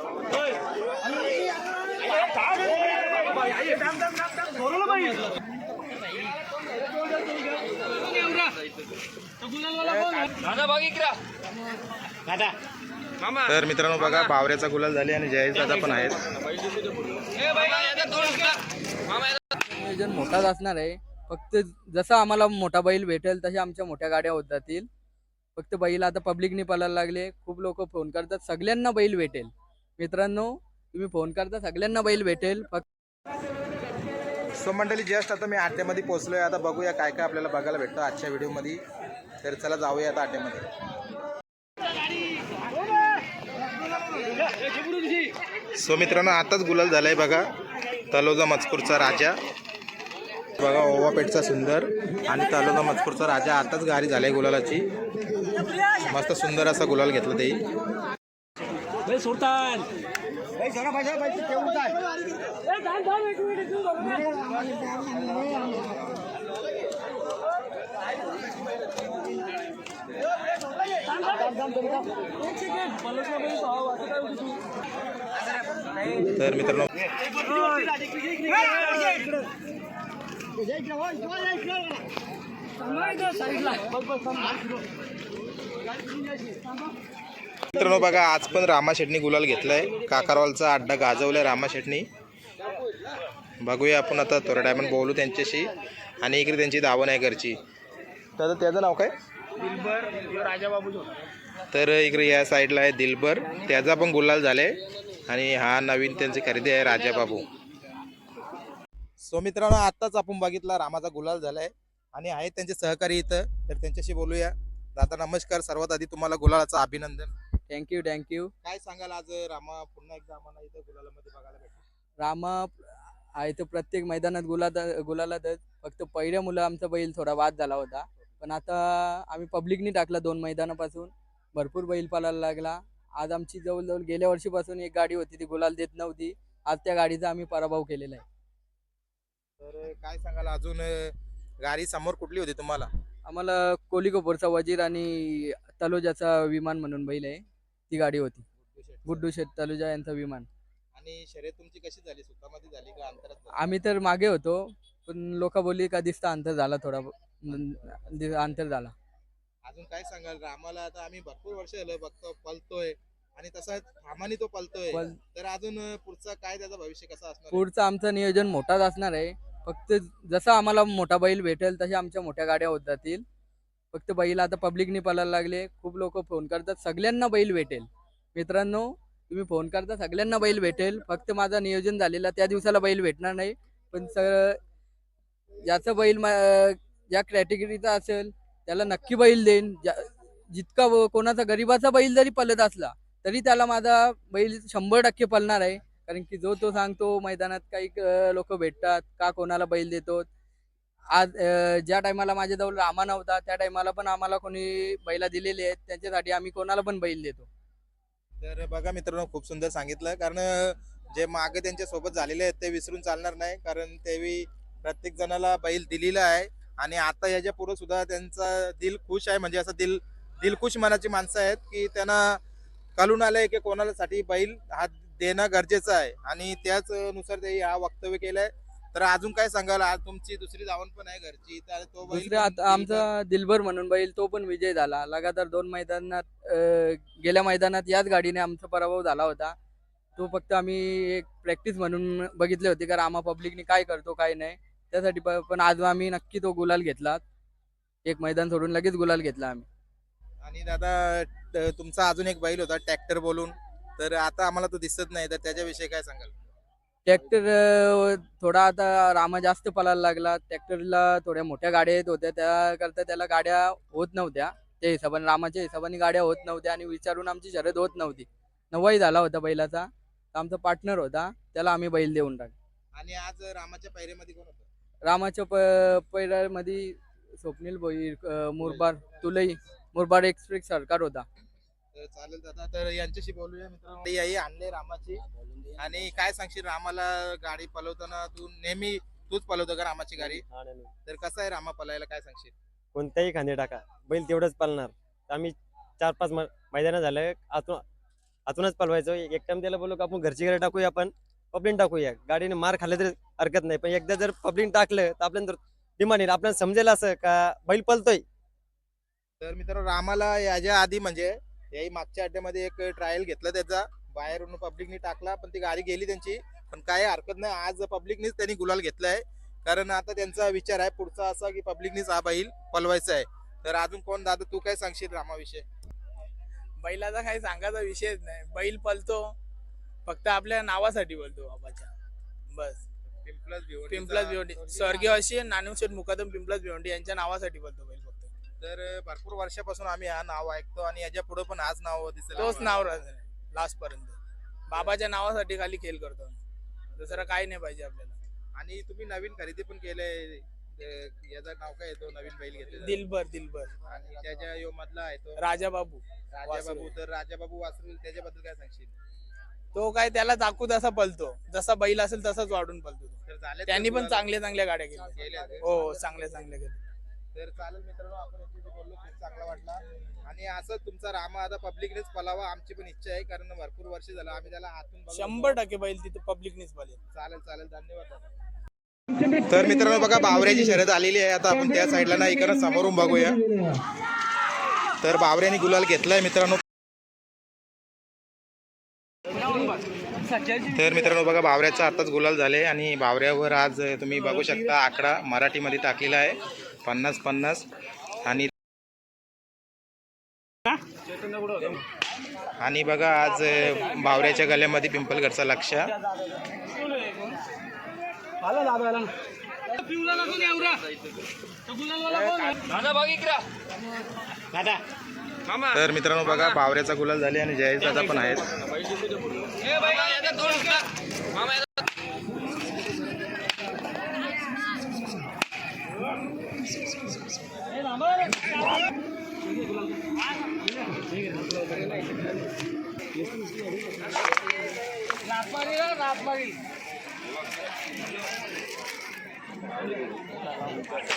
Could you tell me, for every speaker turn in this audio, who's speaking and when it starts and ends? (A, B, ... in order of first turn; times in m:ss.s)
0:10.4-0:11.1 A
0:13.4-0:16.2 B
0:17.4-0:18.5 A
0:19.7-0:24.9 C
0:25.6-0:32.8 C
0:34.6-0:38.8 B
0:39.4-0:40.6 B
0:45.8-0:47.4 B
0:48.1-0:49.3 B
0:50.6-0:54.8 B
0:56.1-0:57.6 B
1:16.2-1:16.9 B
1:27.7-1:32.0 B
1:33.6-1:35.7 B
1:36.2-1:37.6 B
1:38.4-1:39.1 B
1:39.6-1:41.1 A
1:41.7-1:44.8 B
1:45.3-1:47.4 B
1:49.2-1:57.3 B
1:57.7-1:58.5 C
1:58.6-2:01.8 B
2:02.2-2:02.7 C
2:03.4-2:18.2 C
2:19.6-2:22.9 B
2:23.3-2:28.4 C
2:28.6-2:29.3 B
2:29.0-2:30.5 C
2:30.9-2:33.5 B
2:33.6-2:38.9 C
2:39.6-2:47.6 B
2:44.9-2:45.2 C
2:47.5-2:53.2 C
2:53.9-3:04.6 C
3:05.6-3:20.3 C
3:21.1-3:27.5 C
3:28.4-3:42.4 B
3:43.0-3:53.1 B
3:52.1-3:59.5 C
4:00.2-4:07.2 C
4:08.0-4:09.6 C
4:10.4-4:16.3 B
4:17.0-4:32.5 C
4:32.9-4:34.6 B
4:35.0-4:41.3 C
4:38.6-4:39.3 B
4:41.9-4:45.2 B
4:45.8-4:50.4 B
4:50.2-4:50.9 D
4:51.0-4:52.5 B
4:52.9-4:57.8 D
4:58.5-5:08.2 D
5:09.4-5:25.6 B
5:26.8-5:29.4 A
5:30.0-5:31.9 A
5:32.5-5:32.8 A
5:33.2-5:35.2 B
5:33.9-5:38.3 A
5:38.6-5:42.8 B
5:42.4-5:44.2 A
5:44.7-5:46.4 A
5:46.9-5:48.2 A
5:48.6-5:53.0 B
5:52.8-5:53.7 A
5:53.8-5:55.4 B
5:55.4-5:56.9 A
5:56.3-5:58.9 B
5:59.7-6:06.8 A
6:03.2-6:04.3 B
6:05.1-6:05.6 B
6:07.3-6:15.6 B
6:15.1-6:17.0 A
6:17.1-6:18.2 B
6:19.5-6:23.4 B
6:25.0-6:26.6 B
6:30.7-6:37.6 B
6:38.2-6:38.5 B
6:42.6-6:45.9 B
6:50.1-6:50.7 A
6:52.0-6:53.4 A
6:55.6-6:58.5 B
6:59.7-7:00.8 A